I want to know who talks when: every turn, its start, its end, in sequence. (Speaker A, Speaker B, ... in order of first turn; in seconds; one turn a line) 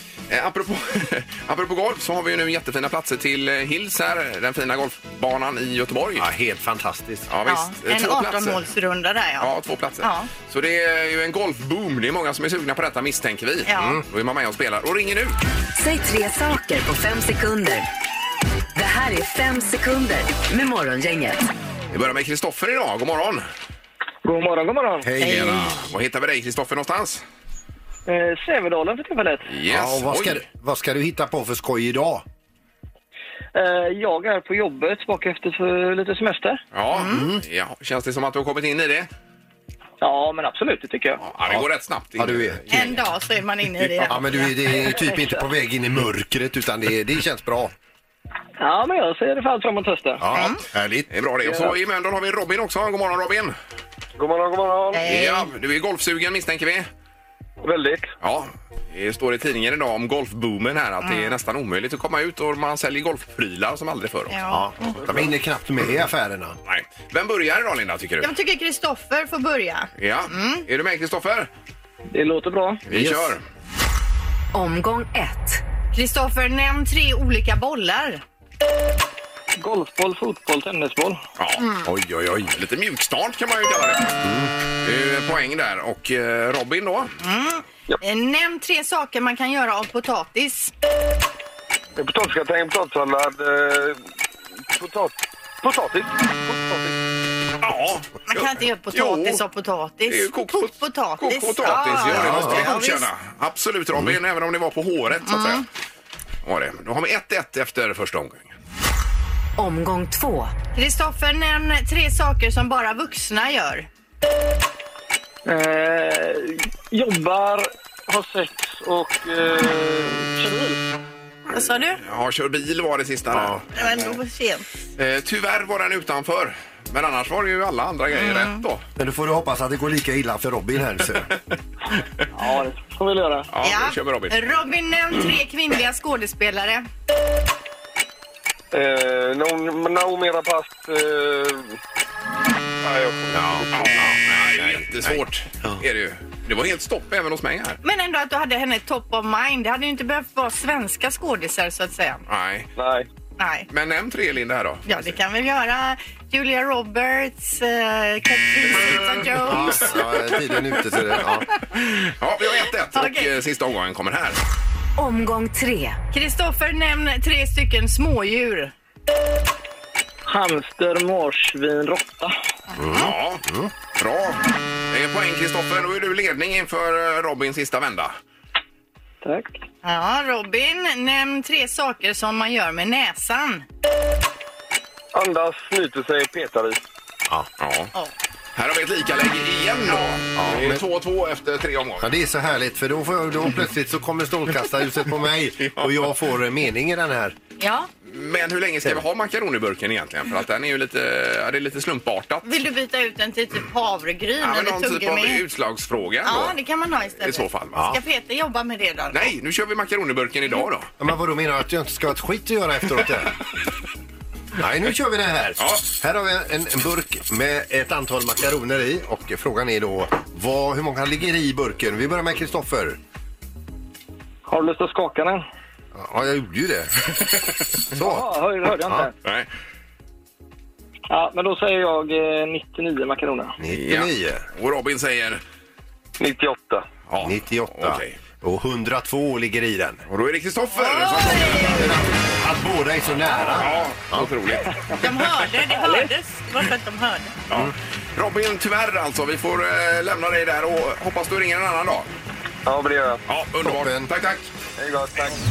Speaker A: 0.3-6.3
Speaker B: 6.2-7.3
Speaker A: 7.3-8.6
Speaker C: 7.4-9.5
Speaker A: 9.4-15.4
Speaker C: 10.0-10.3
Speaker C: 13.7-14.0
Speaker B: 13.8-14.0
Speaker D: 15.8-17.9
Speaker D: 18.8-21.4
Speaker A: 21.9-23.5
Speaker E: 24.2-25.1
Speaker B: 25.1-25.8
Speaker A: 25.2-27.2
Speaker C: 25.2-25.5
Speaker E: 28.1-29.5
Speaker A: 29.5-30.4
Speaker B: 29.7-32.2
Speaker E: 33.5-36.6
Speaker A: 36.7-39.1
Speaker C: 36.9-37.3
Speaker B: 37.1-37.4
Speaker E: 40.0-41.2
Speaker A: 41.2-43.0
Speaker B: 41.5-42.9
Speaker C: 42.7-44.5
Speaker B: 44.1-47.7
Speaker E: 48.6-50.3
Speaker B: 50.2-51.1
Speaker C: 50.3-50.6
Speaker A: 51.1-53.5
Speaker E: 51.5-51.7
Speaker F: 54.2-55.0
Speaker C: 54.9-55.5
Speaker A: 55.0-56.9
Speaker F: 57.6-58.1
Speaker A: 58.2-64.4
Speaker C: 61.0-61.4
Speaker C: 64.3-65.0
Speaker B: 64.5-66.6
Speaker A: 66.7-68.3
Speaker C: 68.2-70.7
Speaker A: 70.0-71.5
Speaker E: 72.1-72.8
Speaker A: 72.9-73.4
Speaker B: 72.9-73.3
Speaker D: 74.5-75.6
Speaker C: 75.9-78.2
Speaker E: 79.6-81.2
Speaker A: 81.4-81.7
Speaker C: 81.6-81.9
Speaker B: 81.9-82.5
Speaker A: 82.5-84.2
Speaker B: 84.2-84.5
Speaker A: 84.8-87.1
Speaker C: 87.2-90.7
Speaker F: 92.0-94.0
Speaker F: 94.7-97.0
Speaker A: 97.6-99.4
Speaker C: 98.3-103.1
Speaker A: 100.1-105.7
Speaker B: 102.0-102.7
Speaker C: 105.2-105.7
Speaker A: 106.4-108.5
Speaker D: 109.6-110.5
Speaker C: 110.8-113.9
Speaker E: 115.5-120.8
Speaker C: 121.5-122.0
Speaker A: 122.0-123.8
Speaker B: 123.3-123.6
Speaker C: 123.7-124.7
Speaker A: 125.0-128.8
Speaker C: 128.1-128.6
Speaker B: 129.0-131.3
Speaker E: 132.4-133.5
Speaker A: 133.5-134.4
Speaker C: 133.6-136.9
Speaker F: 138.7-141.8
Speaker F: 142.8-144.0
Speaker B: 143.3-145.8
Speaker A: 143.7-147.8
Speaker C: 147.8-152.2
Speaker A: 152.3-152.7
Speaker F: 152.8-153.1
Speaker C: 153.4-153.7
Speaker A: 153.7-155.0
Speaker C: 154.9-159.9
Speaker A: 159.0-159.9
Speaker B: 159.5-161.5
Speaker A: 161.7-164.4
Speaker C: 162.9-163.3
Speaker D: 165.0-166.0
Speaker C: 166.1-168.7
Speaker E: 170.3-172.3
Speaker B: 172.8-173.7
Speaker A: 172.9-173.4
Speaker A: 173.9-178.2
Speaker E: 179.2-179.6
Speaker C: 179.8-183.7
Speaker F: 185.1-186.8
Speaker A: 187.6-187.9
Speaker A: 188.6-192.1
Speaker B: 190.4-190.8
Speaker B: 192.0-197.4
Speaker A: 195.6-196.1
Speaker C: 197.6-197.9
Speaker A: 198.1-202.4
Speaker C: 202.4-205.4
Speaker A: 204.4-206.6
Speaker C: 206.2-209.3
Speaker A: 207.2-207.8
Speaker A: 209.1-210.9
Speaker B: 211.0-213.4
Speaker B: 214.6-223.0
Speaker A: 215.6-215.9
Speaker E: 224.5-225.4
Speaker B: 225.9-227.3
Speaker B: 227.9-229.1
Speaker E: 228.0-229.1
Speaker E: 231.1-233.6
Speaker B: 233.6-234.4
Speaker A: 233.7-235.4
Speaker F: 236.2-236.9
Speaker A: 237.1-238.2
Speaker B: 237.2-240.0
Speaker A: 240.1-241.9
Speaker C: 240.7-241.9
Speaker B: 241.7-244.3
Speaker A: 243.5-244.8
Speaker C: 245.0-247.3
Speaker E: 245.8-246.1
Speaker A: 247.5-252.1
Speaker F: 252.7-253.2
Speaker A: 253.3-254.5
Speaker B: 253.6-254.1
Speaker F: 254.8-255.4